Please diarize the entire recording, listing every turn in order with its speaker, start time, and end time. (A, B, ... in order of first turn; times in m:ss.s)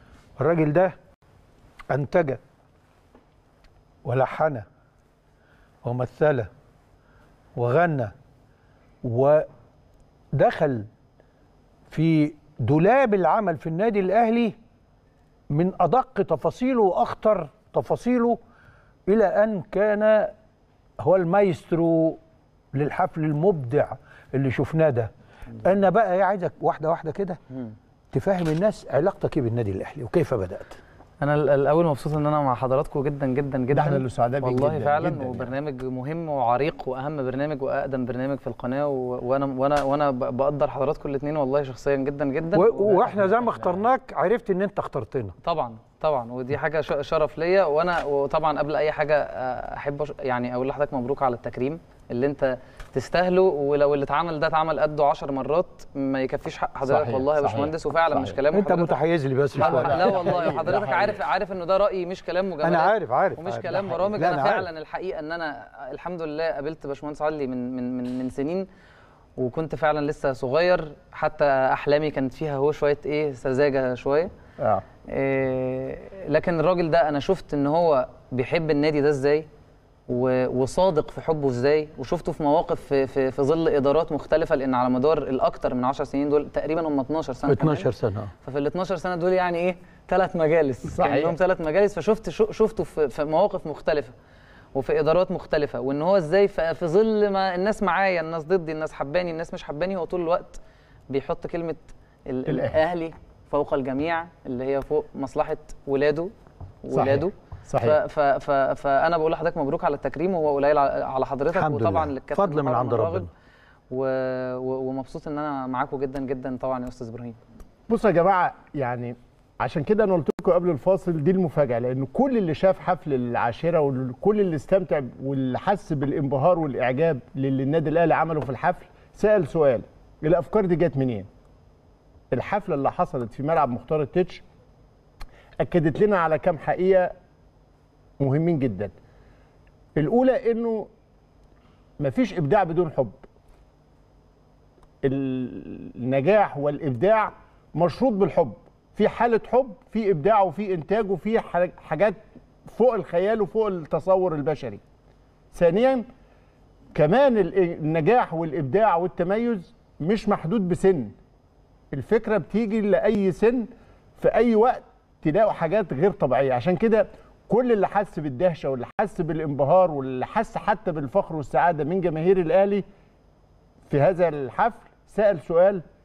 0:00.4-0:01.0 A
0:01.9-0:02.4 A
0:04.0-0:04.6 A
0:05.8-0:06.5 A
0:07.6-0:08.1 A
0:09.0-0:09.5 A
0:10.3-0:10.9 A
0:11.9-0:14.6 A
0:15.5-0:18.4 A
0:19.1-0:20.3 A
0:21.0-0:22.2 A
0:22.7-0:27.4 A
0:28.1-0:30.8 A
0:31.2-0:43.5 B
0:33.7-0:35.5 C
0:42.5-0:45.4 A
0:43.0-0:43.8 C
0:45.4-0:59.0 B
0:56.8-0:58.4 C
0:58.5-1:00.6 A
0:59.6-1:01.2 C
0:59.6-1:08.7 B
1:02.6-1:04.7 A
1:09.4-1:14.3 B
1:14.6-1:14.8 C
1:15.0-1:19.5 B
1:20.1-1:27.9 B
1:27.4-1:28.3 A
1:28.4-1:34.2 B
1:30.8-1:31.4 C
1:34.7-1:46.3 B
1:42.5-1:42.8 C
1:46.8-1:53.3 B
1:46.9-1:48.0 C
1:51.5-1:53.3 A
1:53.9-1:57.4 B
1:57.9-2:11.3 C
2:12.3-2:14.4 C
2:15.6-2:17.1 C
2:18.2-2:18.9 C
2:20.0-2:20.9 C
2:22.0-2:23.2 C
2:25.0-2:34.8 C
2:35.5-2:36.0 C
2:36.9-2:41.2 C
2:41.9-2:43.7 C
2:44.2-2:52.8 C
2:53.9-2:55.8 C